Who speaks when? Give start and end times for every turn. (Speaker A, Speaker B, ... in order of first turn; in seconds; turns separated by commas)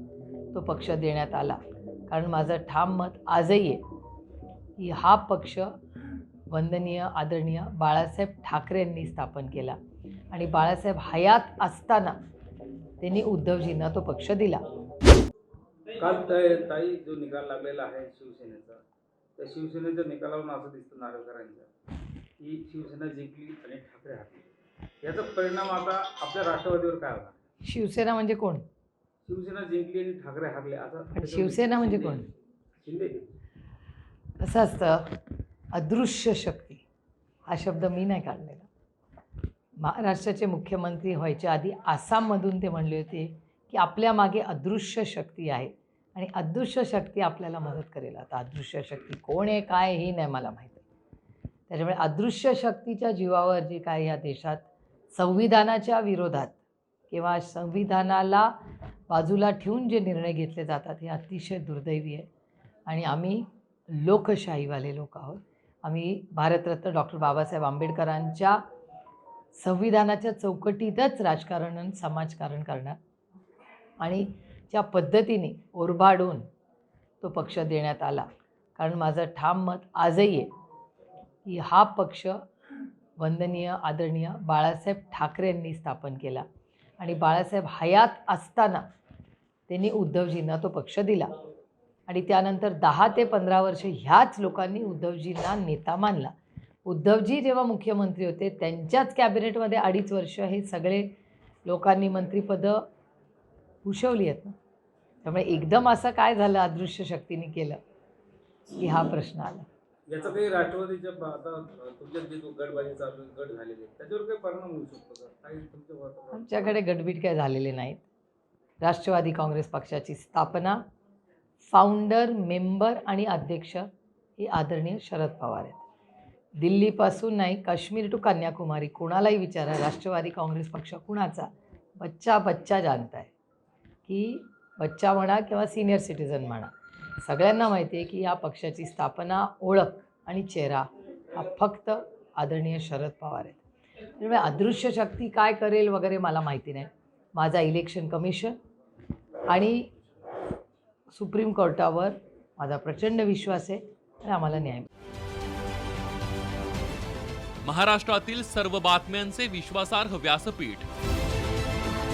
Speaker A: 0.5-1.6, Speaker A: 2.1-3.8, Speaker A: 4.8-5.7, Speaker A: 6.5-9.8, Speaker A: 10.3-12.2, Speaker A: 13.0-14.7, Speaker B: 15.9-18.8, Speaker B: 19.4-21.7, Speaker B: 22.4-24.4, Speaker B: 25.0-27.4, Speaker A: 27.6-28.6, Speaker B: 29.2-33.2, Speaker A: 31.1-32.3, Speaker A: 34.4-35.2, Speaker A: 35.7-36.8, Speaker A: 37.5-38.7, Speaker A: 39.8-50.8, Speaker A: 51.7-56.5, Speaker A: 57.1-58.5, Speaker A: 59.1-62.3, Speaker A: 62.9-68.6, Speaker A: 69.5-73.0, Speaker A: 74.0-76.5, Speaker A: 77.2-80.5, Speaker A: 81.5-82.4, Speaker A: 83.2-86.5, Speaker A: 87.0-88.8, Speaker A: 89.7-91.3, Speaker A: 92.1-96.3, Speaker A: 96.9-101.1, Speaker A: 101.7-102.8, Speaker A: 103.8-104.6, Speaker A: 105.2-107.8, Speaker A: 108.7-109.7, Speaker B: 110.1-116.8, Speaker A: 116.3-118.0, Speaker A: 118.8-120.8, Speaker A: 121.7-125.8, Speaker A: 126.6-133.3, Speaker A: 134.1-148.6, Speaker A: 149.5-149.9, Speaker A: 151.1-154.9, Speaker C: 157.6-160.9